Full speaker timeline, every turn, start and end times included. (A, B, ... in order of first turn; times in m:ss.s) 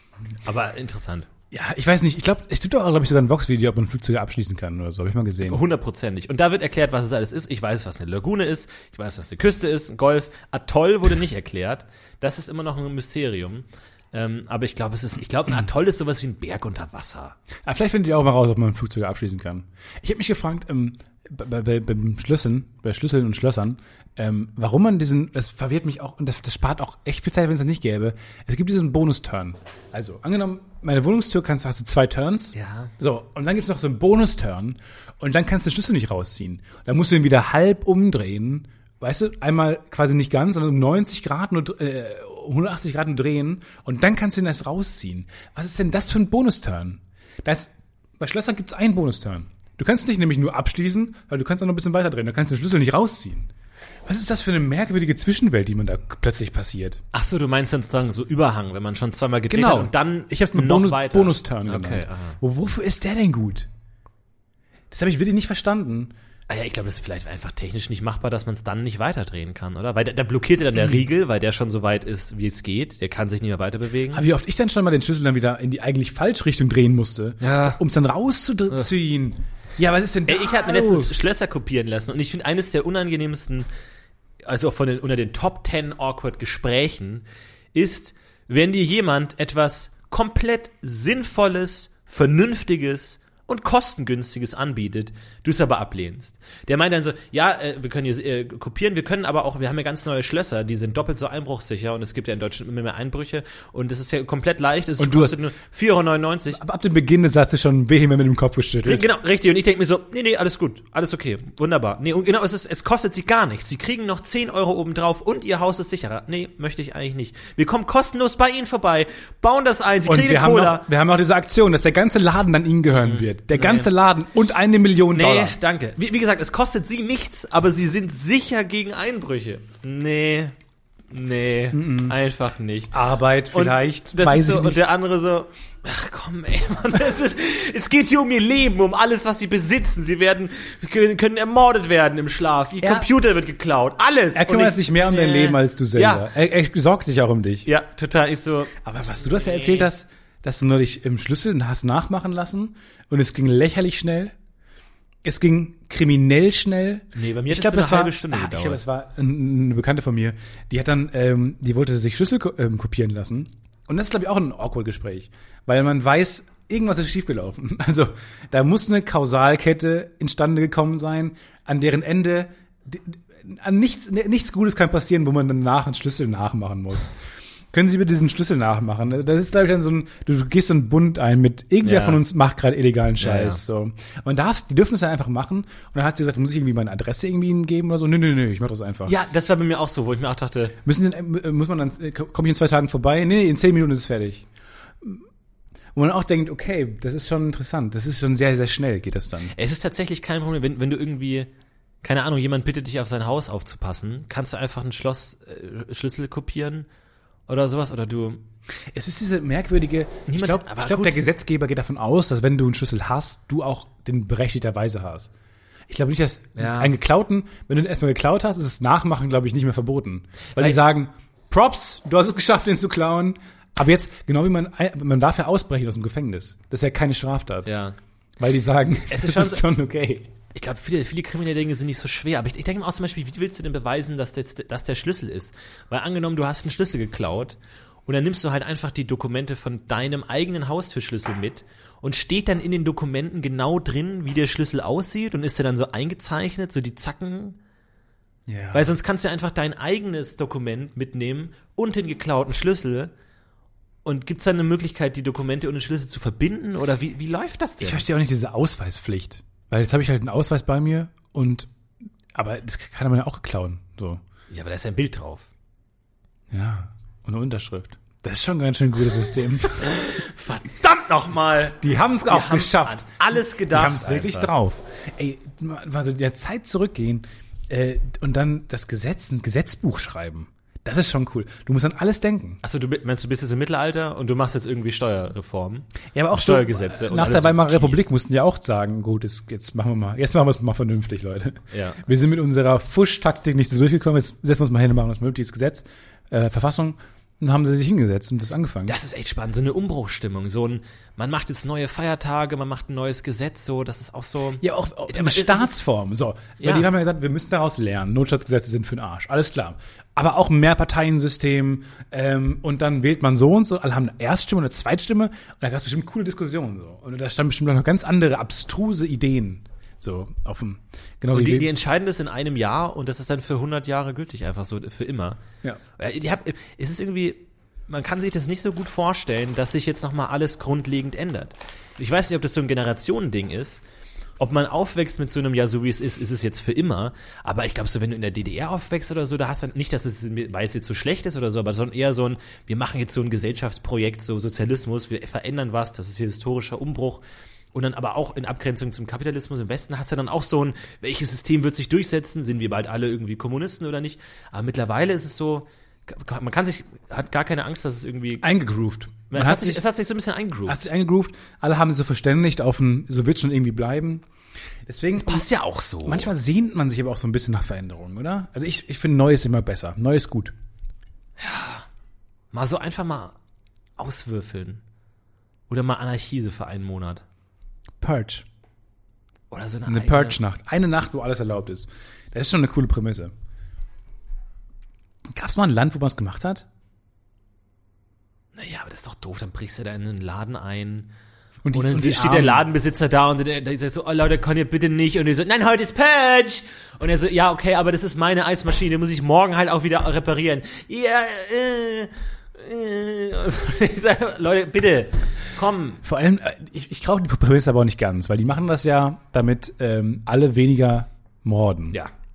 0:00.4-0:01.3 A
0:01.5-0:05.6 B
0:05.5-0:17.4 A
0:17.7-0:53.5 B
0:32.6-0:32.9 A
0:54.1-0:57.0 B
0:57.1-1:02.4 A
0:59.5-1:03.7 B
1:04.9-1:06.1 B
1:06.5-1:14.2 A
1:14.1-1:21.2 B
1:17.4-1:17.8 A
1:20.3-1:23.7 A
1:24.4-1:46.6 A
1:45.0-1:45.4 B
1:46.5-1:49.1 B
1:48.8-2:00.9 A
2:00.1-2:05.6 B
2:03.0-2:03.9 A
2:05.1-2:10.6 A
2:11.1-2:12.9 A
2:11.7-2:12.2 B
2:12.9-2:14.8 B
2:13.5-2:26.3 A
2:22.8-2:23.1 B
2:24.4-2:27.7 B
2:27.7-2:29.9 A
2:28.8-2:34.3 B
2:35.2-2:57.1 B
2:37.2-2:38.8 A
2:57.7-3:09.1 B
3:01.8-3:02.2 A
3:03.2-3:03.6 A
3:09.1-3:10.8 A
3:10.8-3:14.5 B
3:16.0-3:19.5 B
3:19.5-3:21.5 A
3:22.0-3:26.9 A
3:27.5-3:28.4 A
3:28.9-3:35.3 B
3:30.3-3:31.3 A
3:35.9-3:47.7 B
3:36.6-3:36.9 A
3:47.7-3:48.0 A
3:48.4-3:50.3 B
3:49.1-3:49.6 A
3:50.5-4:07.6 A
4:08.5-4:08.9 B
4:08.7-4:13.1 A
4:14.0-4:18.1 A
4:17.8-4:21.7 B
4:22.4-4:24.2 B
4:24.5-4:25.5 A
4:26.5-4:30.0 B
4:29.8-4:34.5 A
4:31.8-4:33.1 B
4:33.6-4:42.6 B
4:42.6-4:48.1 A
4:46.1-4:58.9 B
4:51.7-4:52.0 A
4:58.9-5:05.8 A
5:04.6-5:21.7 B
5:06.6-5:06.9 A
5:21.3-5:25.4 A
5:26.0-5:33.8 A
5:34.4-5:58.5 A
5:58.4-5:59.8 B
5:59.3-6:00.8 A
6:00.7-6:04.2 B
6:04.9-6:05.5 B
6:05.2-6:06.3 A
6:06.0-6:10.5 B
6:11.4-6:11.9 A
6:12.5-6:13.4 A
6:14.0-6:14.8 A
6:15.7-6:17.2 A
6:18.0-6:18.4 B
6:19.5-6:20.4 A
6:19.9-6:23.3 B
6:25.4-6:26.6 B
6:28.5-6:31.1 A
6:31.6-6:32.7 B
6:31.7-6:46.0 A
6:46.0-6:52.0 B